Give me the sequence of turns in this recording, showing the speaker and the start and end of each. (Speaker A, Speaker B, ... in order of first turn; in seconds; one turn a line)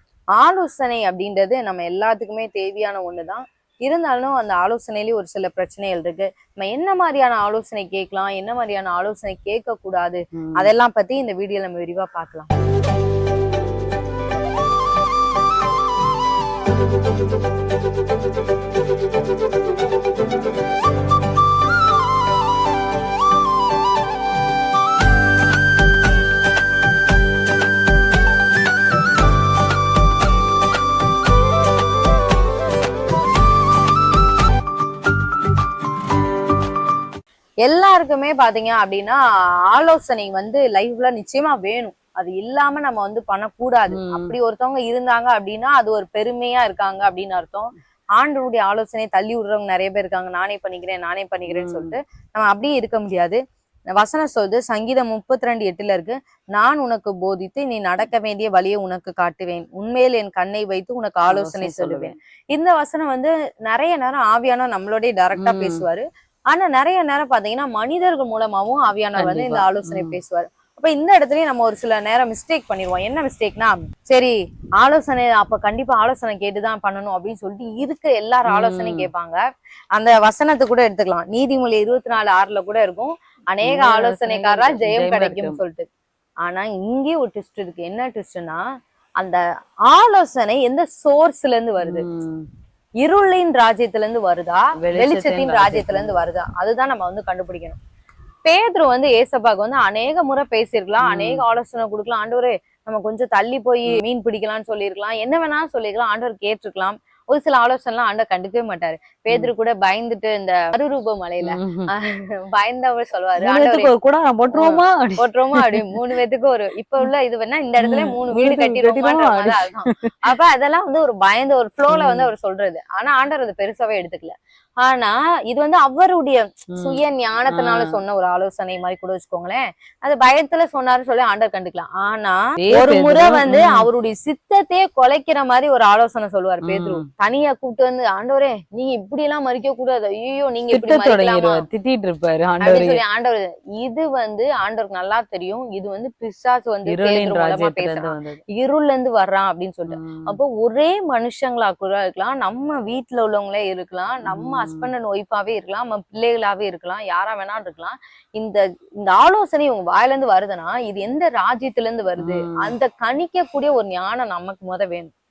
Speaker A: 0.3-12.5
Speaker B: 10.4-10.7
Speaker A: 37.6-39.2
Speaker A: 39.7-53.4
Speaker B: 43.9-44.3
Speaker B: 51.5-51.9
Speaker A: 53.9-79.4
Speaker B: 61.3-62.1
Speaker B: 65.3-65.8
Speaker B: 69.2-70.2
Speaker B: 78.5-79.1
Speaker A: 80.0-85.9
Speaker B: 83.6-85.6
Speaker A: 86.4-88.6
Speaker A: 89.9-92.0
Speaker B: 91.8-92.5
Speaker A: 93.0-97.8
Speaker B: 94.8-96.1
Speaker A: 98.5-113.9
Speaker B: 101.0-101.4
Speaker B: 111.4-111.9
Speaker B: 113.4-116.0
Speaker A: 114.5-141.6
Speaker B: 117.8-120.1
Speaker B: 121.9-122.3
Speaker B: 126.7-127.0
Speaker B: 127.5-128.0
Speaker B: 132.6-133.8
Speaker B: 136.6-137.1
Speaker B: 140.7-143.0
Speaker A: 142.6-165.1
Speaker B: 146.8-148.4
Speaker B: 149.9-150.3
Speaker B: 154.2-154.9
Speaker B: 162.2-162.7